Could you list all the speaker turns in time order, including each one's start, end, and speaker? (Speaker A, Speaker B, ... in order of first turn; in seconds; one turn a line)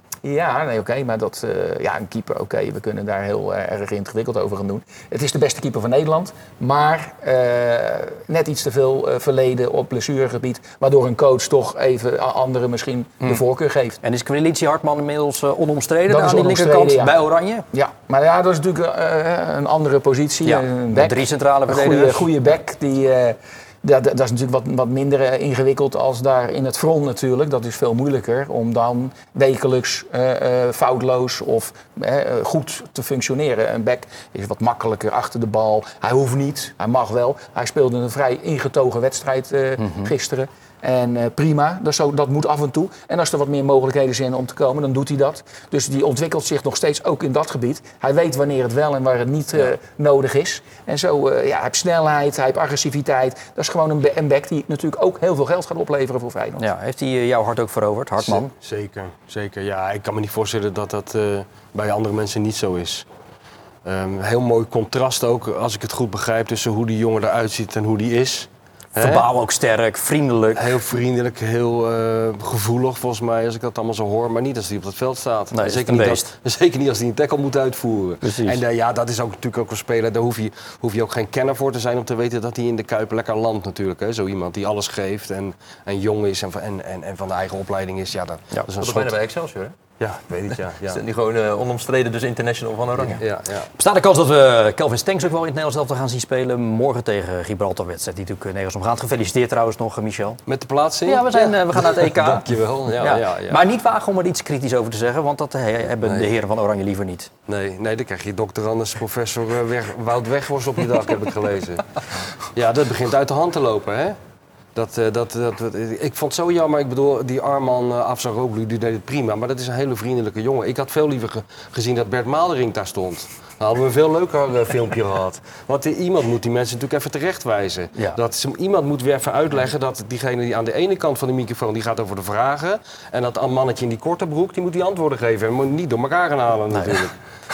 Speaker A: 0.2-14.0
Speaker B: 14.0-17.6
Speaker A: 16.1-17.1
Speaker A: 17.7-56.6
Speaker B: 20.4-22.3
Speaker B: 39.8-40.1
Speaker B: 56.6-58.5
Speaker C: 58.2-63.0
Speaker C: 63.8-69.2
Speaker B: 69.0-70.8
Speaker C: 70.5-89.1
Speaker B: 75.5-76.3
Speaker B: 78.2-78.6
Speaker D: 88.8-89.9
Speaker C: 90.0-91.0
Speaker D: 90.5-93.3
Speaker C: 93.2-93.7
Speaker B: 93.8-100.4
Speaker C: 100.5-103.6
Speaker B: 101.0-107.3
Speaker C: 107.5-111.9
Speaker C: 112.5-114.2
Speaker C: 114.7-137.1
Speaker B: 136.7-137.0